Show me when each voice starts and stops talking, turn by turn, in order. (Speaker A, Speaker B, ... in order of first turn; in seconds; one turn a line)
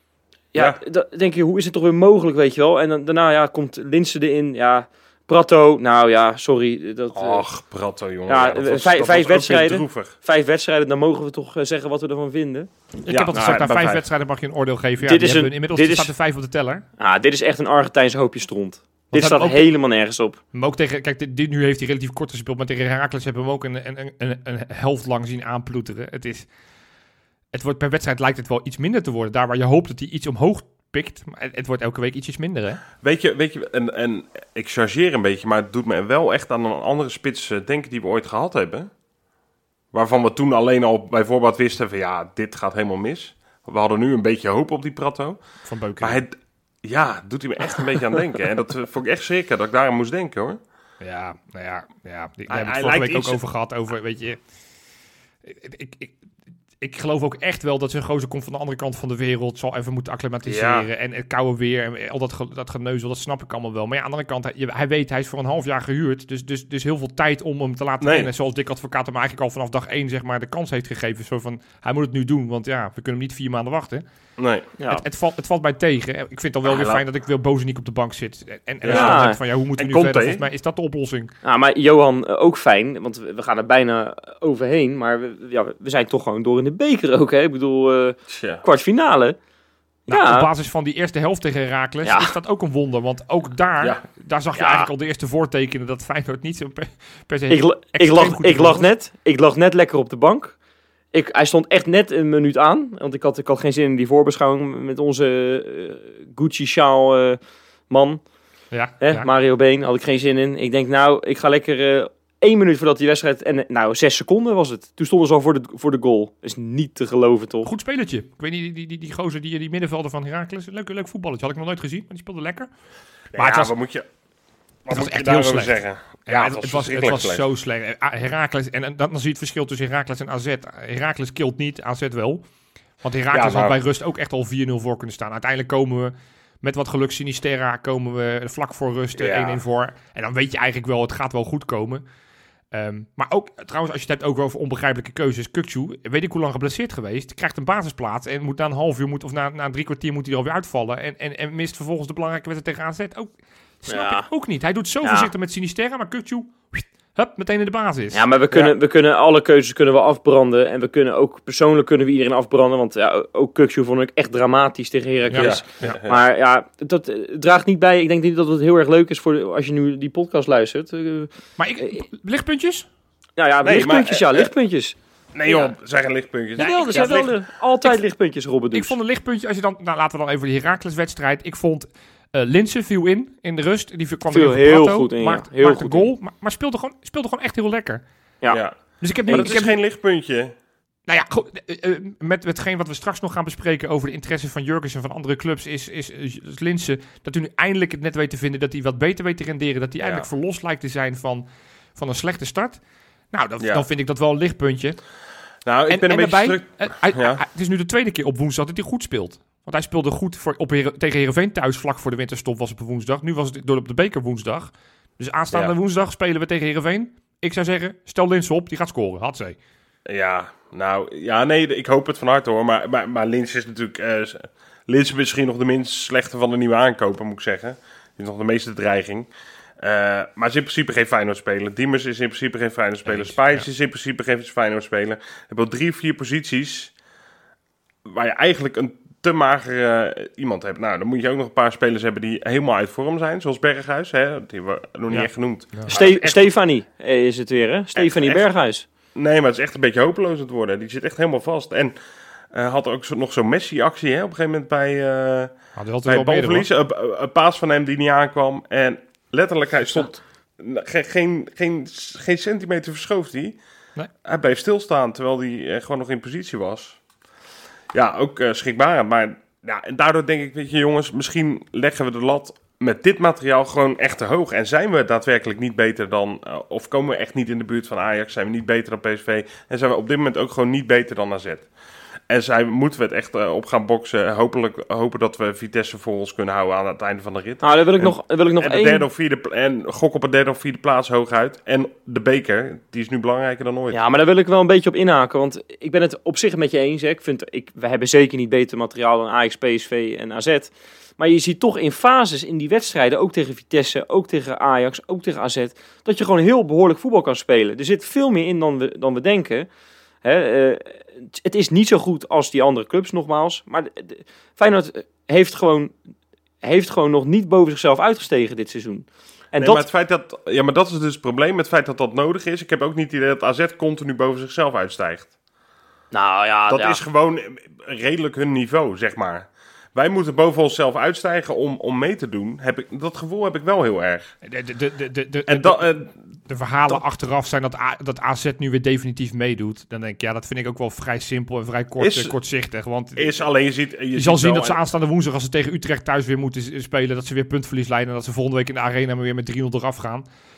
Speaker A: 0.5-7.5
Speaker B: 7.1-10.2
Speaker A: 8.3-12.7
Speaker C: 13.1-16.9
Speaker B: 13.1-14.0
Speaker A: 15.0-16.1
Speaker A: 17.0-20.4
Speaker C: 19.1-19.7
Speaker C: 20.5-26.5
Speaker C: 27.5-32.8
Speaker B: 33.0-38.9
Speaker B: 39.9-45.4
Speaker C: 45.6-46.2
Speaker B: 46.0-50.6
Speaker C: 51.0-54.4
Speaker B: 52.5-53.4
Speaker C: 55.5-56.1
Speaker C: 56.8-74.0
Speaker B: 60.5-60.9
Speaker B: 68.0-68.3
Speaker B: 74.4-74.7
Speaker C: 74.9-81.3
Speaker B: 76.7-77.0
Speaker B: 78.8-80.4
Speaker A: 78.9-79.4
Speaker A: 81.4-89.4
Speaker B: 88.3-88.6
Speaker A: 90.1-90.5
Speaker C: 90.1-98.9
Speaker A: 92.0-92.3
Speaker A: 94.6-94.9
Speaker A: 97.5-100.6
Speaker A: 101.1-107.4
Speaker A: 107.9-108.2
Speaker C: 108.7-109.3
Speaker A: 109.0-117.7
Speaker C: 117.7-122.7
Speaker B: 123.3-124.1
Speaker C: 123.3-123.7
Speaker B: 124.8-127.4
Speaker C: 124.9-132.4
Speaker C: 133.0-142.0
Speaker B: 133.3-133.8
Speaker B: 139.2-139.6
Speaker C: 142.7-158.2
Speaker A: 153.9-154.3
Speaker A: 155.0-155.3
Speaker A: 158.1-172.0
Speaker C: 165.3-166.0
Speaker B: 165.3-166.2
Speaker C: 171.6-172.9
Speaker A: 173.4-175.7
Speaker B: 173.6-174.5
Speaker B: 175.3-177.3
Speaker A: 176.6-178.9
Speaker C: 176.6-178.0
Speaker C: 178.7-188.0
Speaker A: 184.3-186.1
Speaker B: 188.5-190.5
Speaker C: 189.0-189.8
Speaker A: 189.3-189.5
Speaker C: 191.1-201.4
Speaker B: 200.0-200.3
Speaker C: 202.0-202.8
Speaker C: 203.3-205.0
Speaker B: 203.6-203.8
Speaker B: 205.7-207.4
Speaker C: 205.9-219.6
Speaker B: 220.1-229.3
Speaker B: 229.8-236.9
Speaker C: 233.1-233.7
Speaker B: 238.1-246.5
Speaker C: 245.1-245.9
Speaker A: 245.9-248.8
Speaker B: 248.0-248.4
Speaker B: 249.2-251.9
Speaker B: 252.5-263.6
Speaker C: 255.8-256.7
Speaker B: 264.2-267.0
Speaker B: 267.9-281.7
Speaker B: 282.3-294.0
Speaker A: 287.6-289.1
Speaker A: 293.9-309.7
Speaker A: 310.2-315.9
Speaker A: 316.6-319.9
Speaker B: 319.6-325.3
Speaker A: 326.1-327.0
Speaker B: 326.7-334.3
Speaker C: 334.4-335.9
Speaker B: 335.5-336.1
Speaker C: 336.5-343.4
Speaker B: 342.0-342.3
Speaker B: 343.2-344.8
Speaker C: 344.1-350.2